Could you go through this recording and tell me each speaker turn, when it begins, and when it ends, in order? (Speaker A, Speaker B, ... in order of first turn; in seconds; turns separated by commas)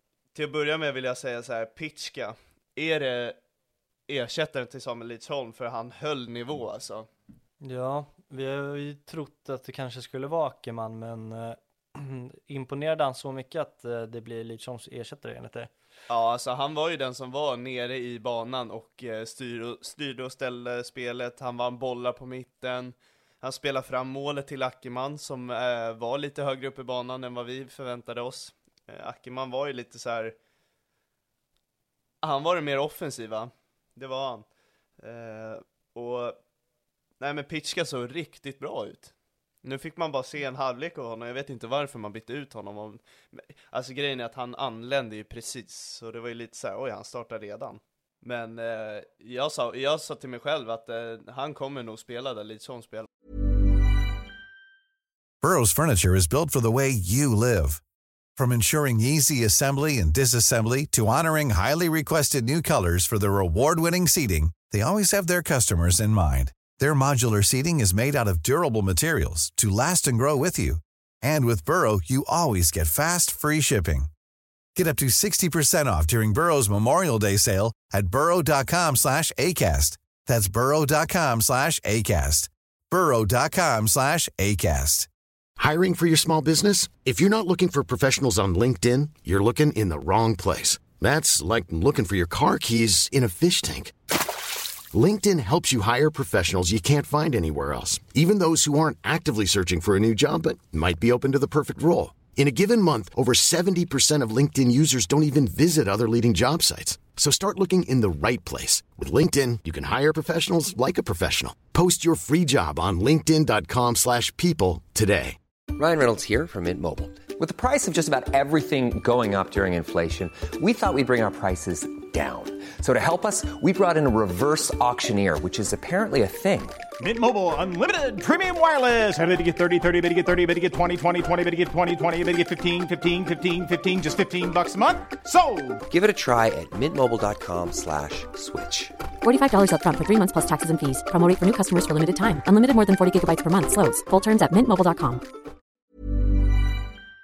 Speaker A: 0.3-3.4, Speaker A: 4.1-7.1, Speaker B: 7.6-15.7, Speaker A: 16.1-30.3, Speaker A: 32.2-34.5, Speaker A: 35.0-36.4, Speaker A: 37.2-53.1, Speaker C: 55.4-57.8, Speaker C: 58.4-74.1, Speaker C: 74.7-85.1, Speaker D: 85.6-93.9, Speaker D: 94.9-115.4, Speaker E: 115.8-126.9, Speaker F: 127.0-135.8, Speaker E: 135.9-139.0, Speaker G: 139.2-145.2